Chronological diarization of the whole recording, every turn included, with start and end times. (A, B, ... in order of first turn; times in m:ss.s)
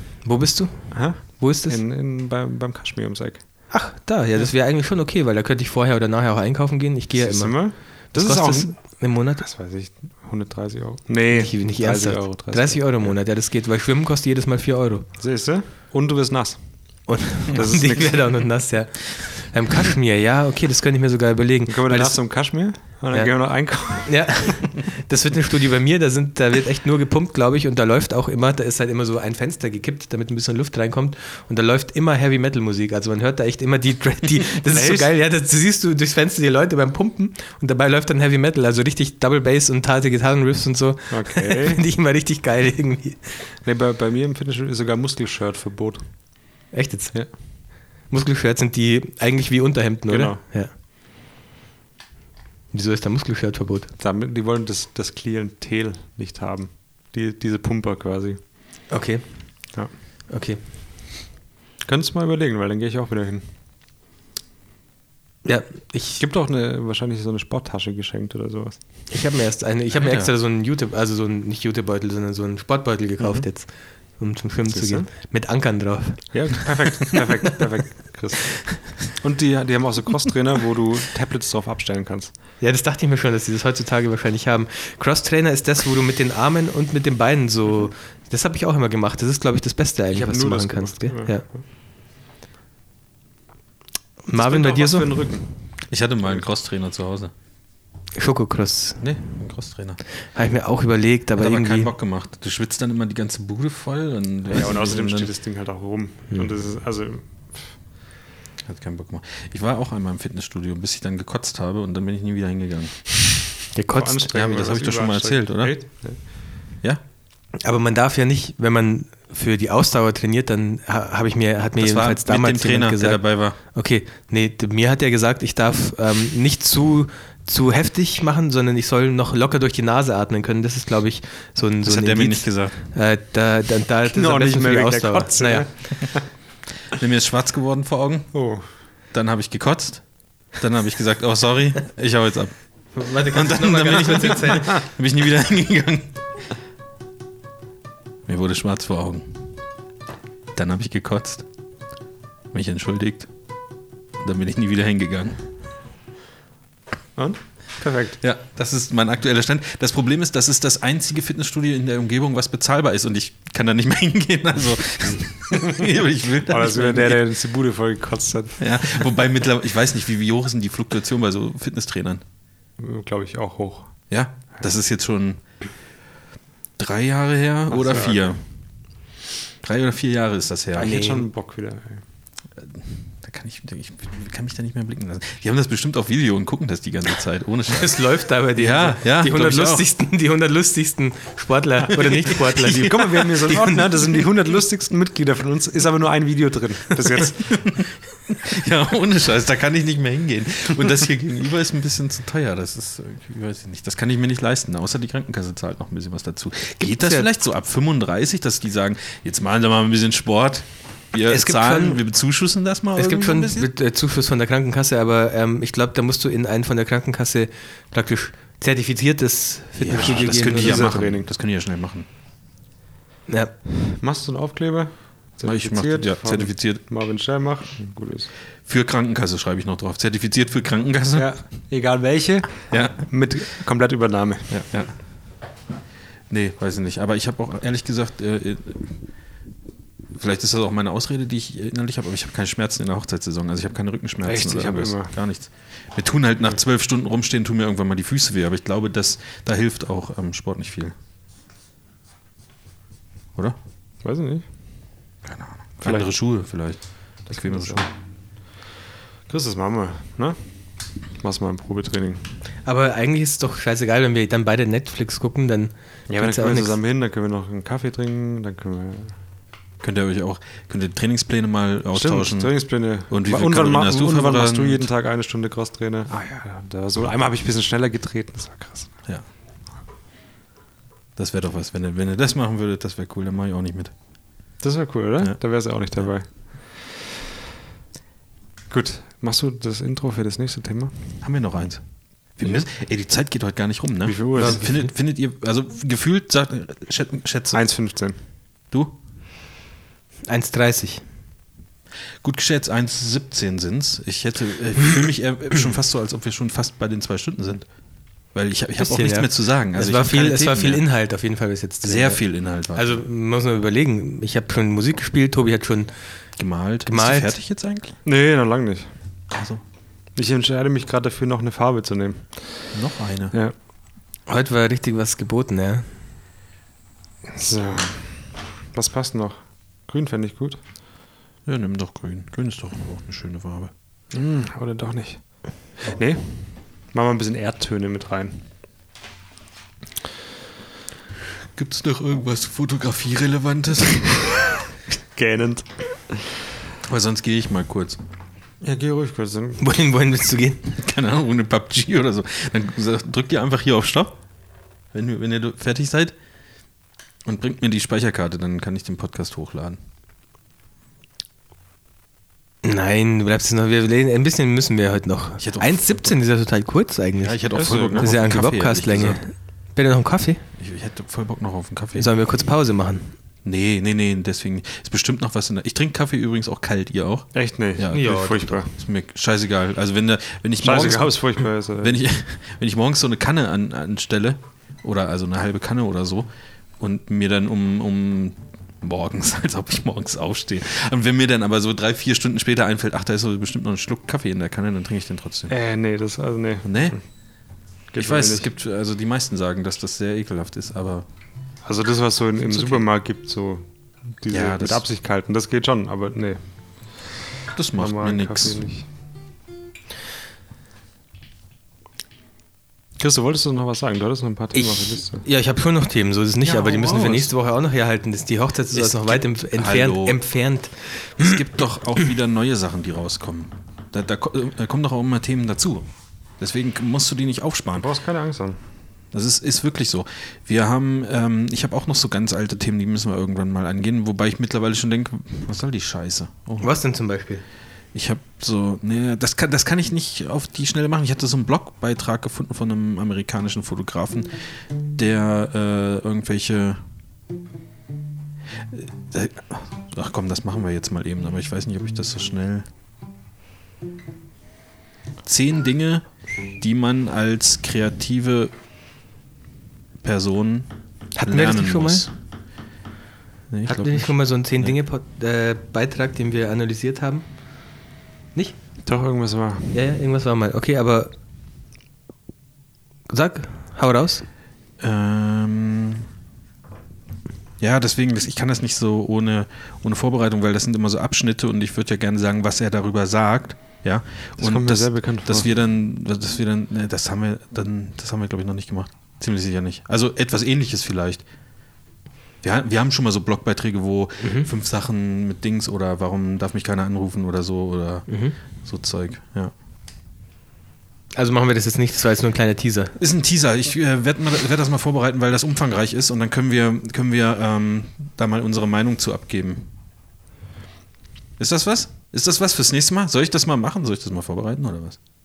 0:00.2-0:01.8 A
0:00.9-0:03.6 B
0:03.7-0:09.4 A
0:07.1-0:13.2 B
0:11.3-0:15.1 A
0:15.2-0:18.5 B
0:17.1-0:22.4 A
0:21.7-0:24.4 B
0:23.1-0:43.4 A
0:34.7-0:35.1 B
0:41.1-0:41.8 B
0:43.6-0:46.6 B
0:46.7-0:50.7 A
0:50.1-0:50.4 B
0:52.7-0:53.9 A
0:54.0-0:58.4 B
0:58.9-0:59.7 A
1:00.3-1:00.6 A
1:01.8-1:03.5 B
1:05.4-1:06.2 A
1:06.2-1:08.8 B
1:09.1-1:16.7 A
1:10.0-1:10.3 C
1:14.7-1:15.1 B
1:16.3-1:22.3 B
1:22.6-1:31.5 A
1:30.1-1:31.6 B
1:34.2-1:35.1 A
1:34.3-1:35.6 B
1:35.9-1:37.3 C
1:38.1-1:39.0 A
1:39.0-1:40.0 C
1:40.3-1:41.9 A
1:41.4-1:45.3 C
1:44.5-1:47.8 B
1:48.6-1:53.3 C
1:53.7-1:54.3 A
1:53.9-1:56.3 B
1:54.3-1:55.8 C
1:57.6-2:15.7 A
2:01.8-2:03.6 C
2:11.8-2:12.7 C
2:14.1-2:16.3 B
2:16.9-2:18.3 C
2:18.3-2:18.6 B
2:19.1-2:22.6 C
2:22.9-2:24.8 A
2:23.2-2:26.1 C
2:28.3-2:29.5 C
2:30.5-2:31.4 C
2:32.5-2:33.3 C
2:34.2-2:35.4 C
2:37.2-2:38.2 B
2:38.2-2:47.2 C
2:46.5-2:48.6 B
2:48.6-2:52.2 C
2:52.8-2:54.0 B
2:54.1-2:55.4 C
2:56.8-2:58.4 C
2:57.7-2:58.2 B
2:59.6-3:01.0 C
3:00.8-3:02.0 B
3:00.8-3:01.2 A
3:02.5-3:09.8 C
3:07.7-3:13.8 A
3:11.9-3:13.0 C
3:12.5-3:17.6 B
3:17.4-3:33.7 C
3:26.8-3:27.3 A
3:31.3-3:32.0 A
3:32.9-3:41.0 A
3:39.8-3:42.0 C
3:40.0-3:41.3 B
3:43.3-3:43.6 A
3:43.8-3:48.3 B
3:45.4-3:46.8 C
3:48.7-3:51.3 C
3:51.1-3:54.6 B
3:52.7-3:53.0 C
3:54.5-3:55.0 C
3:56.3-3:58.9 C
4:00.2-4:10.9 C
4:04.2-4:05.1 B
4:14.0-4:14.5 B
4:15.2-4:17.9 C
4:17.2-4:17.9 B
4:19.3-4:20.4 B
4:21.2-4:22.3 B
4:22.6-4:26.8 A
4:26.1-4:29.2 B
4:29.8-4:34.9 C
4:31.9-4:39.0 B
4:41.2-4:43.9 C
4:44.6-4:47.0 B
4:48.7-4:51.0 B
4:51.2-4:51.8 C
4:52.4-4:57.6 C
4:54.0-4:54.7 B
4:54.4-4:54.9 A
4:57.5-4:58.2 B
5:00.3-5:01.0 A
5:02.2-5:07.6 C
5:08.3-5:10.8 C
5:08.8-5:15.9 A
5:11.8-5:13.0 C
5:16.4-5:17.9 C
5:16.8-5:17.3 A
5:18.0-5:18.9 B
5:19.3-5:19.6 C
5:20.1-5:22.7 B
5:22.7-5:23.3 C
5:24.3-5:25.9 A
5:27.3-5:30.6 B
5:31.4-5:33.7 C
5:34.1-5:38.4 B
5:41.6-5:44.3 C
5:45.1-5:46.3 B
5:46.8-5:48.0 C
5:48.6-5:49.6 B
5:49.6-5:50.6 A
5:50.7-5:54.2 C
5:54.9-5:56.1 C
5:57.2-5:59.8 C
6:02.6-6:10.4 A
6:05.4-6:06.1 C
6:07.2-6:09.2 C
6:07.5-6:08.1 B
6:10.6-6:12.1 C
6:12.0-6:13.1 A
6:13.4-6:35.5 C
6:17.3-6:18.7 B
6:17.9-6:18.4 A
6:20.6-6:22.0 B
6:35.5-6:37.0 B
6:36.6-6:37.0 C
6:37.9-6:38.5 B
6:38.0-6:41.1 C
6:41.6-6:46.4 B
6:42.5-6:42.8 C
6:44.3-6:44.8 C
6:47.5-6:48.6 C
6:47.7-6:48.8 B
6:53.0-6:55.2 B
6:54.5-7:01.4 A
6:56.4-6:57.3 C
6:58.7-7:00.2 C
7:01.2-7:05.9 C
7:06.4-7:07.9 C
7:07.8-7:08.6 B
7:09.1-7:16.7 C
7:16.6-7:17.4 A
7:17.9-7:24.4 C
7:25.0-7:26.8 C
7:28.7-7:32.7 C
7:35.2-7:36.0 C
7:36.6-7:38.5 C
7:40.0-7:40.7 C
7:41.2-7:42.1 A
7:41.2-7:42.1 C
7:43.5-7:44.7 C
7:43.6-7:47.2 A
7:48.8-7:49.8 B
7:49.7-7:51.1 A
7:53.1-7:54.2 A
7:54.8-7:56.0 C
7:57.6-8:11.2 C
8:04.4-8:05.5 B
8:12.4-8:18.1 C
8:14.2-8:14.5 A
8:18.1-8:18.4 A
8:18.6-8:19.5 C
8:21.1-8:22.9 A
8:23.0-8:29.7 C
8:31.4-8:35.0 C